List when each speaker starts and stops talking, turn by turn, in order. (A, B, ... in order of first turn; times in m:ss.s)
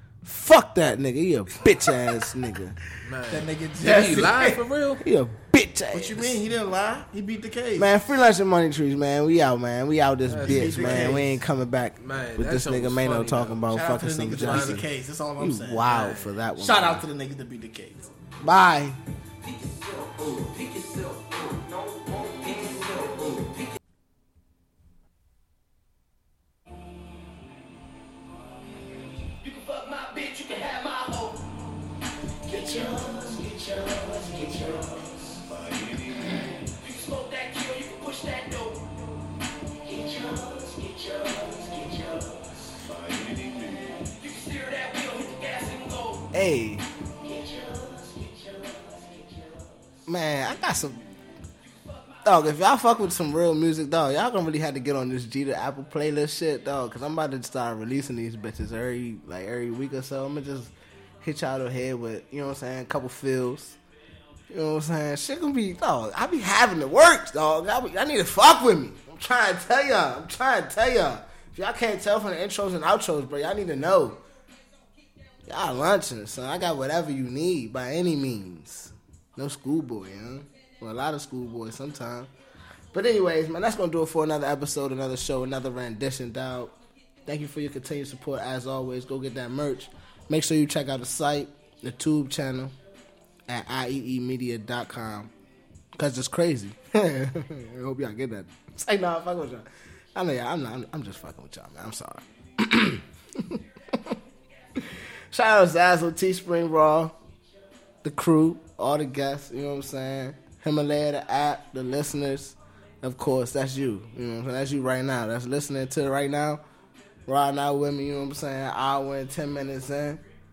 0:00.2-0:02.8 A
0:03.0-0:05.0 B
0:03.3-0:04.6 C
0:05.0-0:06.4 A
0:05.9-0:07.9 C
0:07.8-0:14.9 A
0:10.3-0:11.3 B
0:10.5-0:11.4 C
0:12.0-0:13.7 B
0:13.7-0:15.9 C
0:14.3-0:14.8 B
0:15.4-0:17.0 A
0:15.8-0:16.3 B
0:16.6-0:18.1 C
0:18.4-0:19.0 A
0:19.4-0:23.8 D
0:29.3-0:31.6 D
0:32.4-0:39.1 D
0:39.8-0:46.3 D
0:46.3-0:46.8 A
0:47.1-0:49.9 D
0:50.1-0:51.0 A
0:52.0-0:52.3 D
0:52.2-1:03.8 A
1:04.5-1:14.2 A
1:15.5-1:22.3 A
1:22.9-1:32.8 A
1:33.5-1:35.3 A
1:35.9-1:44.2 A
1:44.8-1:47.2 A
1:48.0-1:56.6 A
1:57.3-2:00.2 A